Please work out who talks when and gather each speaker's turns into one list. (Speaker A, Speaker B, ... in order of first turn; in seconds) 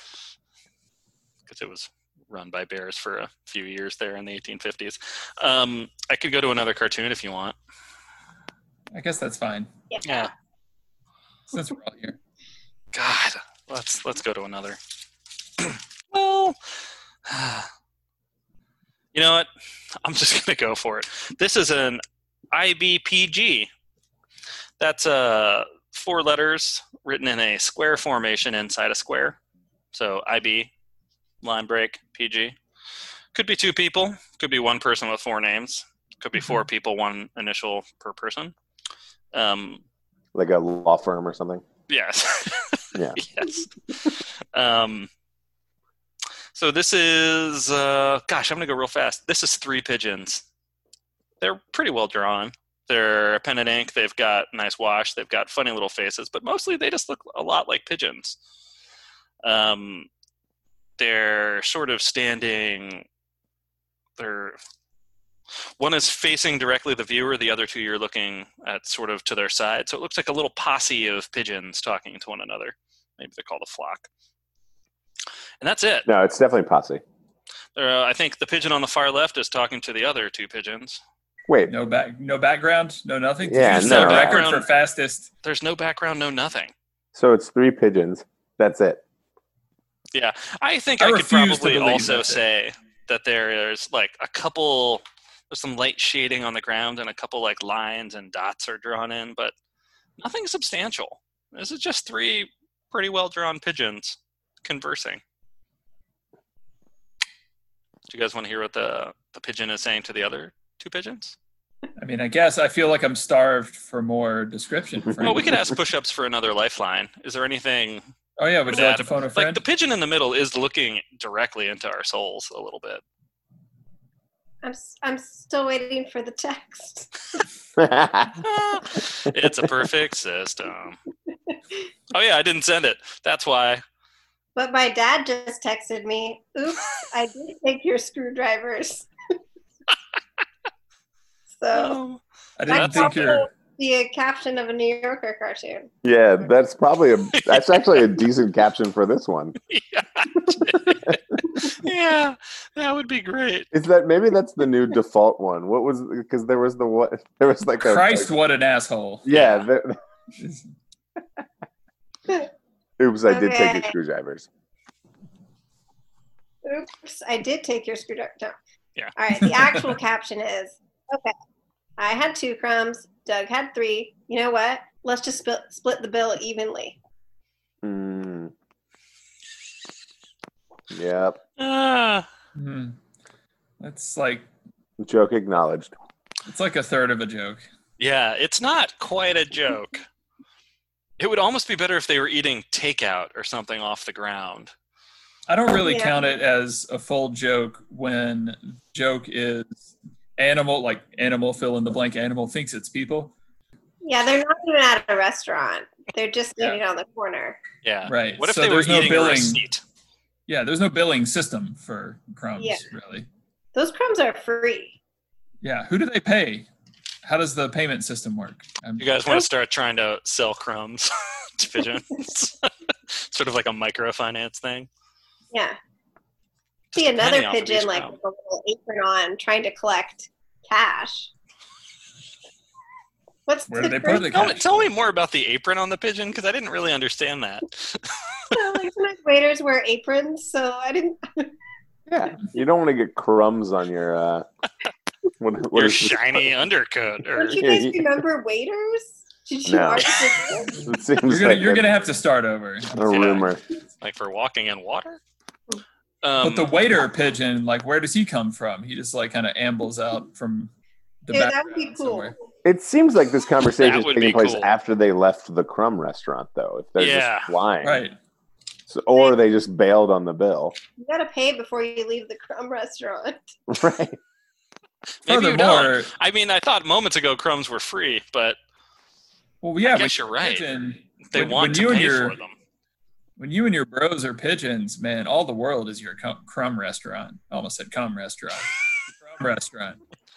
Speaker A: 1.4-7.5, 10.0-10.3, 12.9-14.8, 15.6-16.6, 17.2-17.7, 19.1-19.5, 20.0-23.7, 24.8-29.4, 29.9-30.7, 31.4-32.6, 33.3-38.5, 39.3-39.8, 41.9-45.1, 46.5-50.4, 51.4-58.4, 59.4-60.1, 61.0-63.0, 64.2-64.6, 65.8-74.1, 75.6-76.1, 77.8-81.0, 83.7-84.7, 85.4-86.7, 90.1-99.5, 100.2-105.2, 108.1-111.4, 115.2-118.0, 118.7-123.0, 128.4-131.0, 132.1-133.8, 141.7-143.2, 147.3-148.0, 149.7-153.7, 159.3-159.7, 181.6-182.2, 188.0-190.0, 191.2-194.7, 207.8-209.8, 219.0-224.9, 226.9-228.1, 234.2-238.6, 245.7-247.6, 253.1-255.2, 256.2-256.7, 263.8-264.7, 267.0-267.5, 275.2-278.6, 279.8-280.7, 281.2-282.5
Speaker B: 8.9-9.7, 11.5-12.2, 81.7-85.3, 91.0-92.4, 112.0-115.6, 118.4-119.6, 142.6-143.4, 157.8-159.2, 160.4-160.6, 169.4-169.9, 182.6-183.0, 183.8-184.5, 186.4-187.6, 195.5-203.3, 208.1-209.6, 210.5-213.3, 215.6-216.7, 217.2-219.1, 233.7-234.9, 251.2-253.2, 256.4-260.7, 261.2-262.3, 267.8-268.1, 275.3-276.1, 279.6-282.4, 283.4-290.0
Speaker C: 9.9-10.3, 124.6-127.4, 134.6-139.1, 141.6-142.0, 142.7-145.9, 163.3-163.9, 166.6-168.5, 169.2-171.3, 172.0-177.0, 195.8-196.2, 204.0-207.6, 212.6-212.8, 213.7-215.0, 225.5-225.8, 226.9-231.3, 233.5-234.5, 238.5-241.5, 247.3-250.9, 261.3-262.4, 271.0-273.4
Speaker D: 40.3-41.6, 42.9-43.2, 76.0-77.0, 83.4-84.5, 87.1-89.0, 127.8-128.4, 146.0-149.6, 150.6-151.1, 153.7-158.3, 159.2-160.0, 163.0-164.5, 177.8-178.5, 180.9-181.4, 185.0-185.9, 242.1-244.4, 245.4-246.5, 247.6-248.2, 249.7-250.1, 250.7-252.1, 252.9-253.6, 262.6-268.0, 268.9-270.7, 273.7-274.2